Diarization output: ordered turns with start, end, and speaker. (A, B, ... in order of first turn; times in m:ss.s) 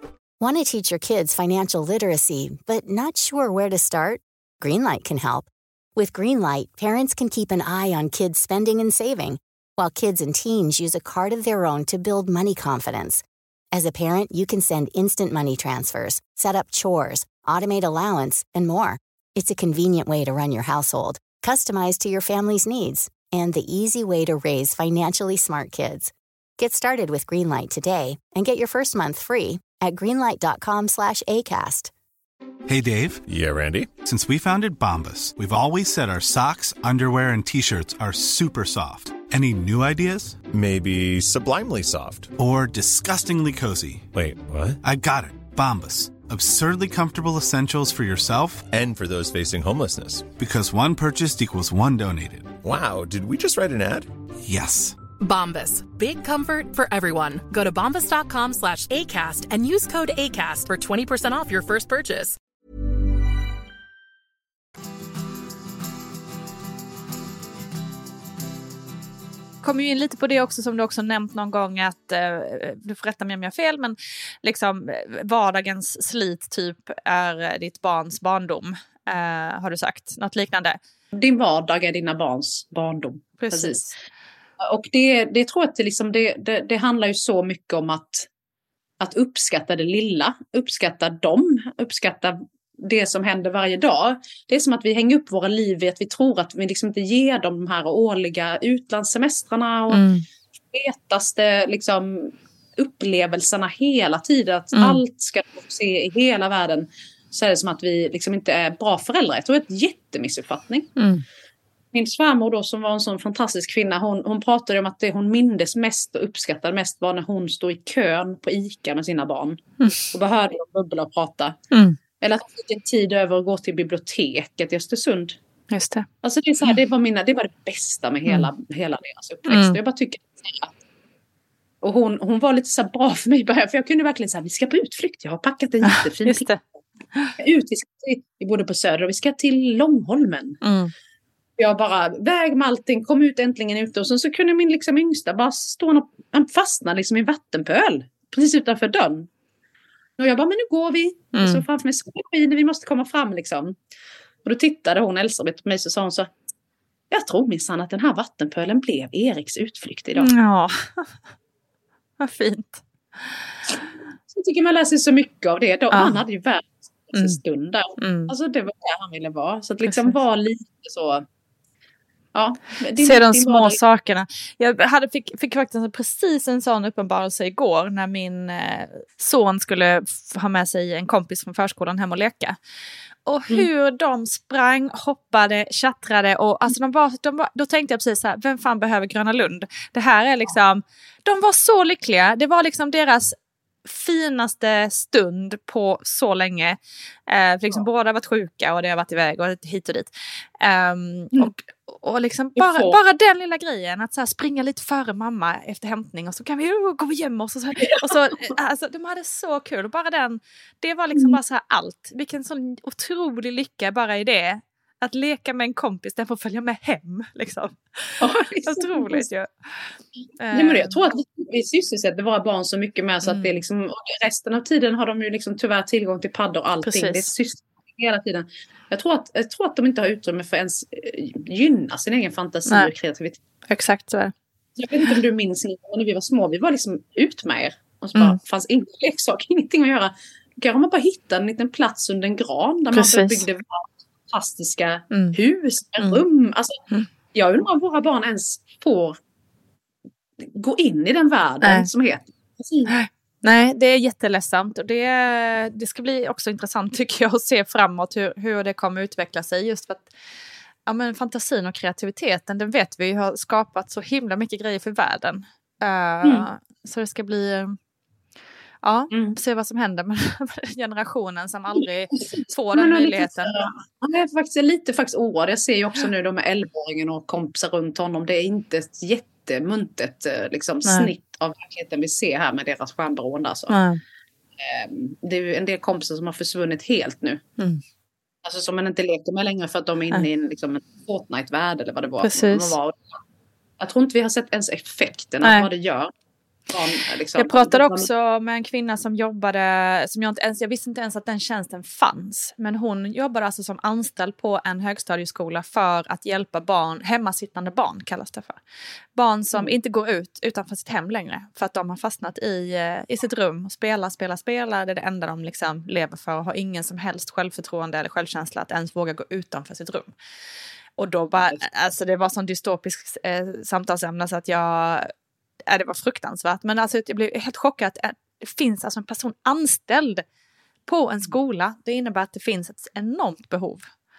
0:00.4-0:31.9 A
0:32.7-0:33.2 B
0:33.3-0:33.9 C
0:34.0-0:40.4 B
0:40.5-0:42.3 C
0:42.4-0:44.0 B
0:44.1-0:44.8 C
0:44.8-0:48.7 B
0:48.7-0:50.2 C
0:50.4-0:52.5 B
0:52.6-0:54.1 C
0:54.5-0:54.9 B
0:55.2-1:02.4 D
1:09.6-1:20.8 E
1:21.2-1:23.8 F
1:23.4-1:23.9 E
1:24.6-1:28.3 F
1:29.0-1:40.1 F
1:39.9-1:40.2 E
1:40.7-1:50.9 F
1:44.7-1:45.0 E
1:51.0-1:51.2 E
1:51.9-2:01.6 F
1:59.8-2:00.1 E
2:01.7-2:02.0 E
2:02.2-2:05.4 F
2:05.7-2:06.0 E
2:06.2-2:10.8 F
2:09.5-2:09.8 E
2:11.8-2:16.5 F
2:15.8-2:16.6 E
2:17.4-2:20.6 F
2:20.6-2:20.9 E
2:21.6-2:29.3 F
2:30.2-2:33.8 F
2:31.3-2:31.6 E
2:34.4-2:36.3 F
2:37.1-2:40.3 F
2:40.2-2:41.1 E
2:42.2-2:42.8 E
2:44.3-2:51.2 F
2:45.9-2:46.2 E
2:47.1-2:47.4 E
2:48.0-2:48.3 E
2:49.8-2:50.1 E
2:52.3-2:53.8 F
2:53.0-3:02.6 E
3:03.2-3:39.8 E
3:22.6-3:23.0 F
3:38.2-3:39.2 F
3:40.4-3:41.0 E
3:40.5-3:53.4 F
3:43.2-3:43.5 E
3:46.8-3:47.2 E
3:53.7-3:54.3 E
3:54.8-4:06.8 F
4:02.9-4:03.4 E
4:05.1-4:05.4 E
4:07.3-4:09.2 F
4:10.5-4:12.9 F
4:11.6-4:11.9 E
4:12.9-4:20.1 E
4:20.8-4:27.8 E
4:28.8-4:33.6 E
4:29.1-4:29.4 F
4:32.2-4:43.8 F
4:40.8-4:41.1 E
4:43.7-4:44.0 E
4:44.6-4:47.4 F
4:48.4-4:53.0 F
4:52.2-4:52.7 E
4:53.8-4:56.1 F
4:55.4-4:55.7 E
4:56.7-4:58.1 F
4:57.4-5:08.6 E
5:09.2-5:20.1 E
5:21.0-5:25.1 E
5:25.7-5:30.2 E
5:30.9-5:33.8 E